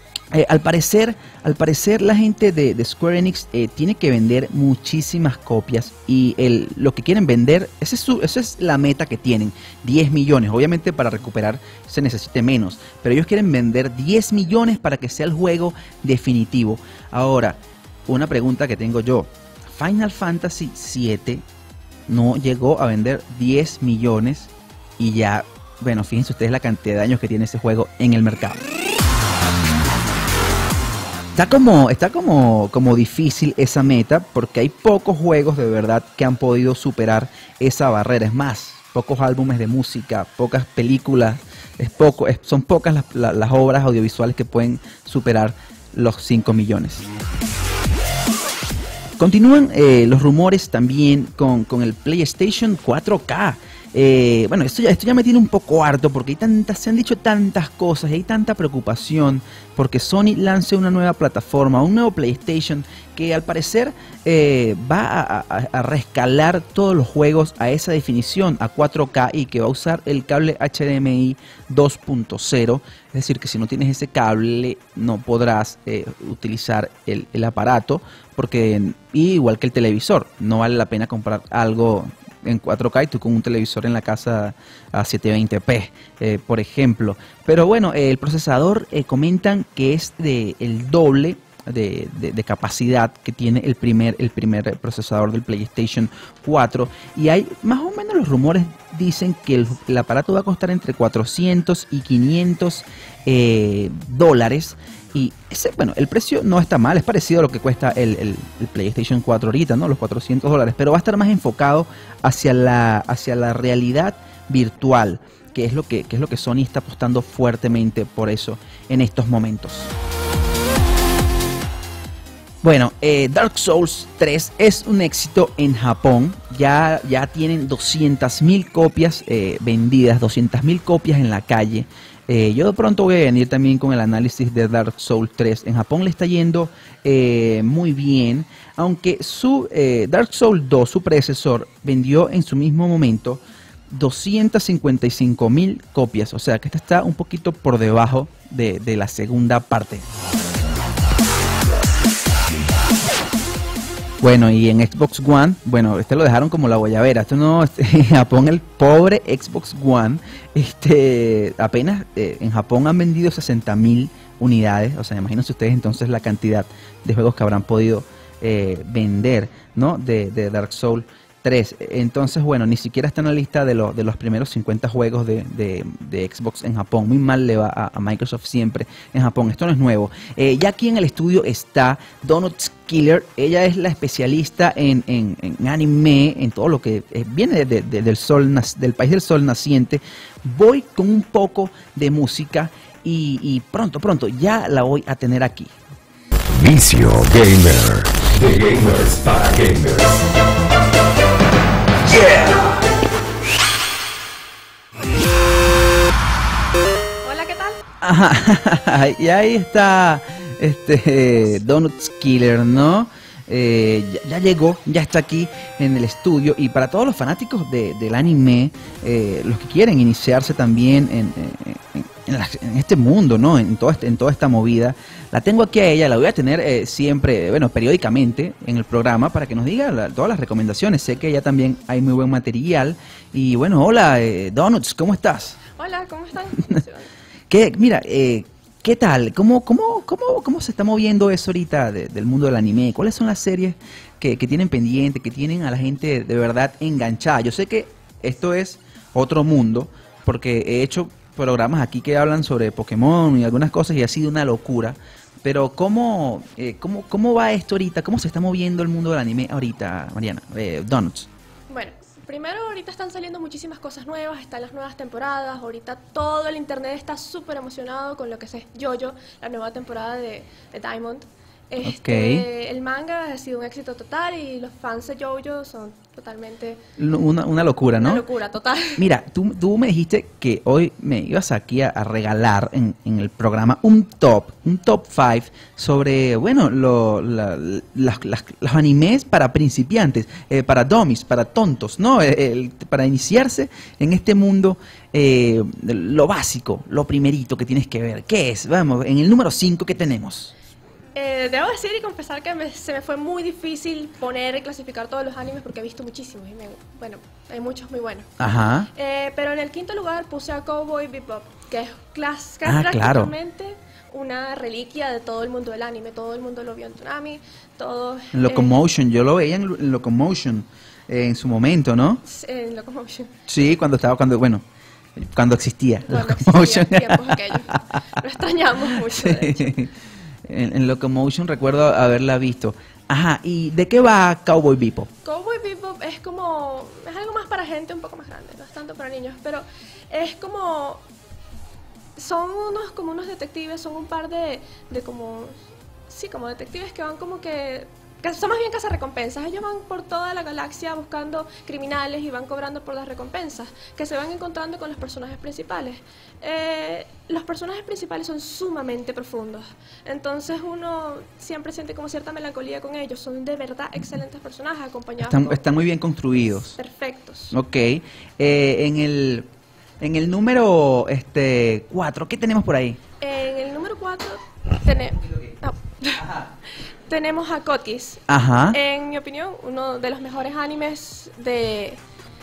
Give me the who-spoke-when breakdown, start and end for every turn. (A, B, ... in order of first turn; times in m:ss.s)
0:00.3-0:21.4 A
0:22.1-0:28.6 A
0:31.4-0:47.1 A
0:49.2-1:59.9 A
2:02.6-2:30.1 A
2:34.2-3:15.8 A
3:16.5-3:20.2 B
3:22.1-3:22.7 A
3:27.2-3:27.8 C
3:28.0-3:55.6 A
3:55.8-3:57.1 C
3:57.5-4:21.3 A
4:21.7-4:36.8 C
4:31.8-4:32.4 A
4:37.0-4:38.2 A
4:38.0-4:39.0 C
4:39.0-5:00.5 A
5:01.2-5:08.3 C
5:08.4-5:08.9 A
5:08.9-5:18.7 C
5:12.6-5:13.3 A
5:18.3-5:22.2 A
5:22.2-5:23.3 C
5:23.5-5:24.6 A
5:25.2-5:28.2 A
5:26.1-5:29.8 C
5:28.8-5:29.9 A
5:30.4-5:35.1 A
5:35.2-5:41.0 C
5:42.2-6:05.6 C
6:05.2-6:06.8 A
6:06.7-6:07.6 C
6:07.5-6:09.5 A
6:10.0-6:13.0 A
6:13.2-6:16.3 C
6:15.2-6:15.5 A
6:16.2-6:16.5 A
6:17.1-6:22.0 C
6:18.3-6:18.8 A